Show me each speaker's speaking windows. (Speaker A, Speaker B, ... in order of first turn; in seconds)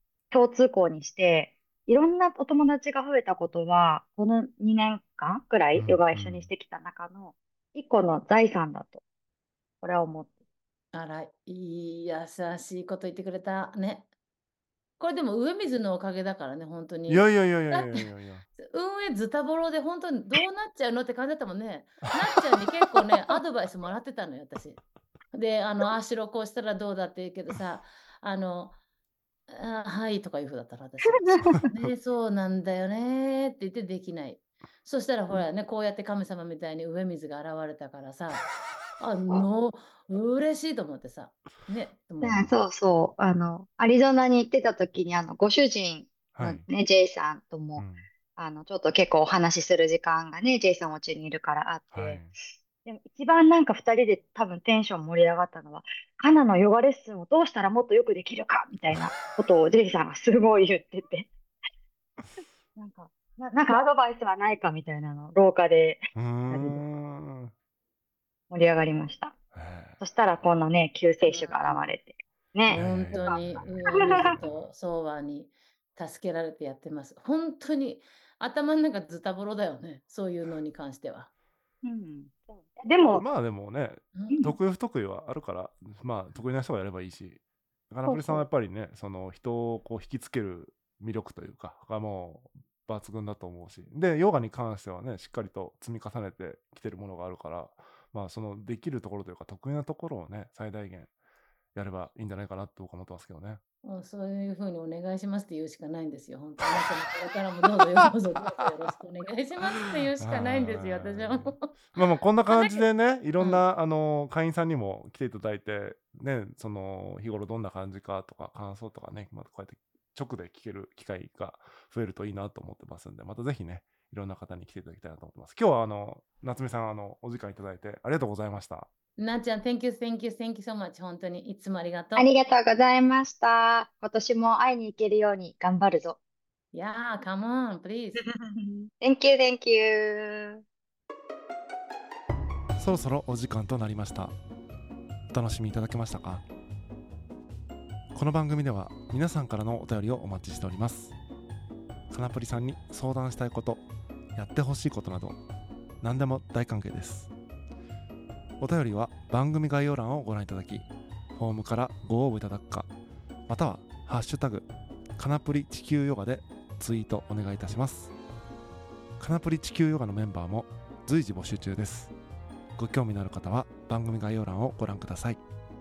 Speaker A: 0.3-9.0, 9.8-10.3, 31.1-31.6, 42.2-52.3, 52.9-61.3, 62.8-66.8, 68.5-69.4, 70.0-74.4, 81.8-83.2, 88.1-88.5, 132.2-136.2, 138.2-140.6
Speaker B: 5.8-6.5, 17.1-18.4, 46.4-46.6, 47.8-48.1, 51.9-52.3, 66.2-67.5, 69.5-70.0, 72.7-74.7, 83.0-101.1, 101.7-103.6, 110.2-128.9, 142.8-144.3, 145.3-146.4, 148.1-151.1, 152.1-153.8, 154.3-155.4, 156.0-157.3, 158.6-162.9, 163.5-168.1, 169.2-172.1, 172.8-175.4
Speaker C: 10.9-14.1, 15.0-18.1, 18.6-24.8, 25.3-28.8, 29.5-42.5, 71.3-71.9, 72.7-81.3, 84.1-84.4, 103.8-111.7, 112.5-112.8, 113.4-113.6, 129.2-132.3, 136.7-138.2